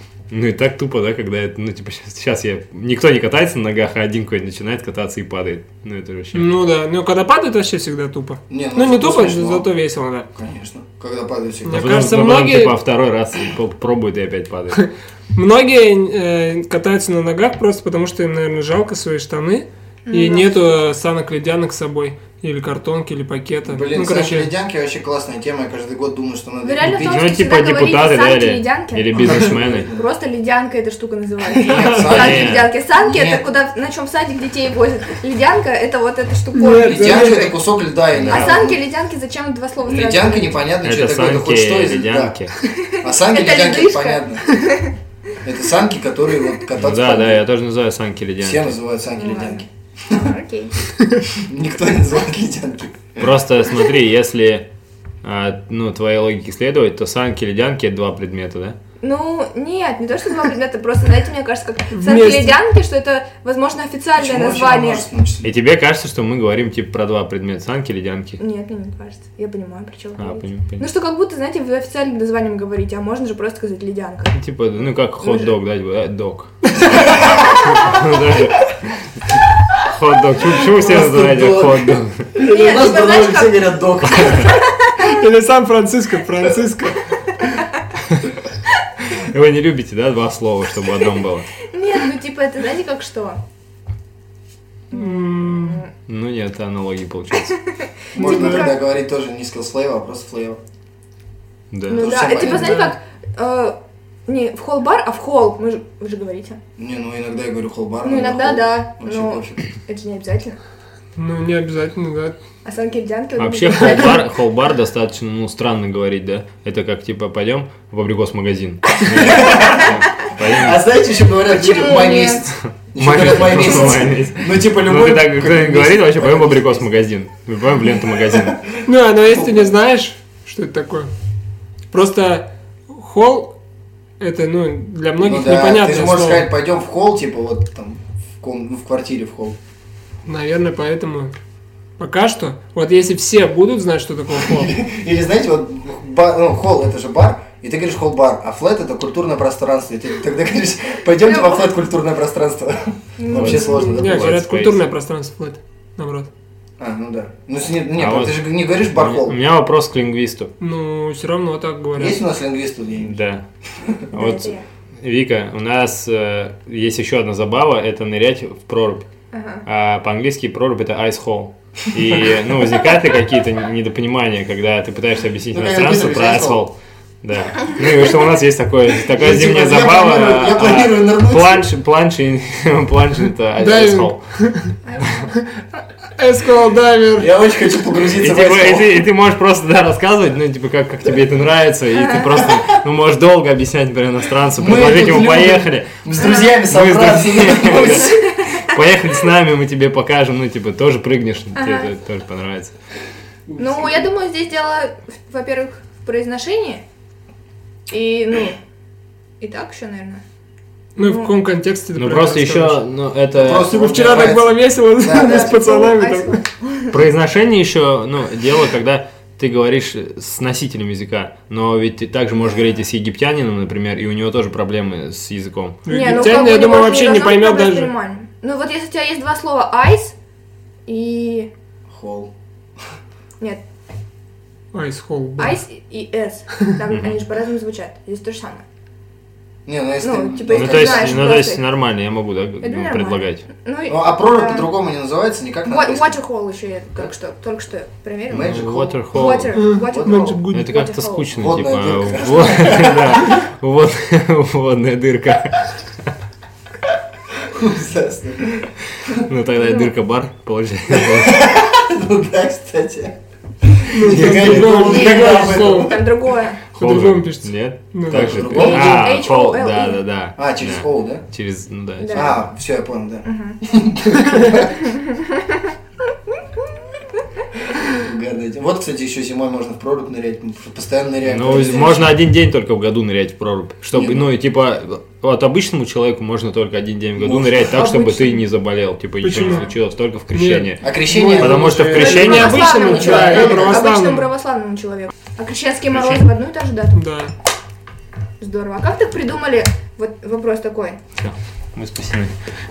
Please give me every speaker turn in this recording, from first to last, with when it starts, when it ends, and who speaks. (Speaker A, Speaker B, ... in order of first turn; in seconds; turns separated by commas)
Speaker A: 0.3-6.6, Speaker B: 6.3-10.3, Speaker C: 8.5-9.7, Speaker C: 10.3-12.1, Speaker B: 11.7-12.8, Speaker A: 11.7-14.8, Speaker B: 14.8-24.5, Speaker D: 20.1-20.7, Speaker C: 23.7-27.3, Speaker D: 26.6-37.5, Speaker A: 26.8-29.9, Speaker C: 29.2-30.1, Speaker C: 31.6-33.4, Speaker B: 31.7-32.1, Speaker A: 32.0-32.7, Speaker B: 36.5-37.5, Speaker C: 36.8-38.8, Speaker A: 38.1-38.6, Speaker D: 38.3-40.6, Speaker C: 39.8-42.4, Speaker A: 40.8-42.5, Speaker D: 42.6-44.9, Speaker C: 43.0-44.5, Speaker C: 45.4-47.4, Speaker A: 46.8-48.8, Speaker C: 48.4-50.3, Speaker D: 49.2-50.7, Speaker C: 51.3-53.3, Speaker A: 53.2-54.7, Speaker A: 55.2-58.8, Speaker D: 59.0-65.0, Speaker B: 61.9-62.6, Speaker C: 64.2-65.5, Speaker A: 65.4-68.4, Speaker D: 68.4-74.4, Speaker A: 70.2-70.9, Speaker A: 74.3-82.3, Speaker D: 75.2-75.5, Speaker C: 76.9-77.3, Speaker C: 80.5-84.6, Speaker D: 82.4-85.1, Speaker A: 84.1-84.4, Speaker B: 85.0-87.0, Speaker A: 89.1-91.5, Speaker D: 91.7-93.4, Speaker D: 94.9-95.9, Speaker B: 94.9-95.8, Speaker A: 96.1-97.6, Speaker D: 97.8-98.8, Speaker C: 98.2-100.6, Speaker A: 101.7-102.1, Speaker D: 101.9-106.6, Speaker C: 101.9-102.9, Speaker B: 102.3-103.0, Speaker C: 106.8-109.6, Speaker D: 108.0-110.6, Speaker B: 111.2-112.4, Speaker D: 112.6-114.2, Speaker A: 113.4-120.8, Speaker C: 119.1-126.9, Speaker D: 119.1-119.9, Speaker D: 121.4-122.5, Speaker A: 122.6-128.6, Speaker C: 128.3-128.7, Speaker B: 128.9-131.1, Speaker C: 129.2-129.7, Speaker B: 131.9-133.6, Speaker B: 134.2-136.5, Speaker C: 135.2-139.6, Speaker B: 140.2-141.3, Speaker B: 142.0-144.7, Speaker C: 144.4-154.4, Speaker D: 151.2-151.7, Speaker D: 153.2-154.0, Speaker A: 153.3-154.9, Speaker B: 153.9-156.3, Speaker C: 156.8-159.4, Speaker A: 158.0-160.5, Speaker B: 160.6-162.2, Speaker C: 162.0-163.2, Speaker A: 163.0-163.4, Speaker D: 164.1-164.6, Speaker A: 164.1-169.1, Speaker D: 169.3-169.6, Speaker A: 169.7-184.2, Speaker C: 175.5-176.6, Speaker C: 179.1-181.7, Speaker B: 183.6-184.7, Speaker D: 184.8-185.4, Speaker B: 186.2-187.3, Speaker C: 187.2-189.0, Speaker A: 188.1-202.7, Speaker D: 191.9-192.3, Speaker C: 194.6-198.3, Speaker D: 196.2-196.6, Speaker D: 198.1-198.6, Speaker D: 201.6-201.9, Speaker D: 203.6-206.8, Speaker D: 207.9-208.6, Speaker D: 209.4-210.2, Speaker B: 211.0-212.8, Speaker D: 211.0-211.3, Speaker A: 212.0-214.4, Speaker C: 213.3-215.7, Speaker B: 213.7-216.4, Speaker D: 215.1-216.9, Speaker A: 216.9-225.8, Speaker B: 225.9-227.9, Speaker D: 225.9-230.2, Speaker D: 230.9-231.5, Speaker C: 231.9-232.3, Speaker B: 234.7-235.6, Speaker D: 235.4-238.6, Speaker A: 236.9-237.2, Speaker C: 239.7-241.3, Speaker D: 240.0-241.6, Speaker A: 240.5-243.4, Speaker D: 242.6-244.7, Speaker C: 243.9-246.2, Speaker D: 245.7-251.3, Speaker C: 248.3-250.3, Speaker A: 248.3-249.6, Speaker B: 249.6-250.7, Speaker A: 250.5-255.8, Speaker C: 251.3-253.4, Speaker C: 257.4-259.2, Speaker A: 259.1-261.4, Speaker D: 259.6-259.9, Speaker C: 260.9-266.1, Speaker B: 263.9-266.0, Speaker A: 264.1-264.8, Speaker D: 264.7-266.6, Speaker A: 266.7-272.4, Speaker B: 266.8-268.5, Speaker C: 268.1-269.1, Speaker D: 268.6-270.0, Speaker C: 270.4-271.2, Speaker D: 272.0-272.4, Speaker C: 272.1-274.8, Speaker D: 273.2-273.6, Speaker D: 274.8-275.6, Speaker C: 277.9-282.2, Speaker A: 281.2-292.9, Speaker C: 283.9-284.3, Speaker C: 287.2-288.4, Speaker B: 289.2-289.7, Speaker B: 290.3-294.3, Speaker C: 290.8-292.1, Speaker D: 291.9-297.0, Speaker C: 292.7-293.9, Speaker A: 295.9-296.2, Speaker B: 296.9-297.3, Speaker D: 298.4-301.0, Speaker A: 301.2-302.3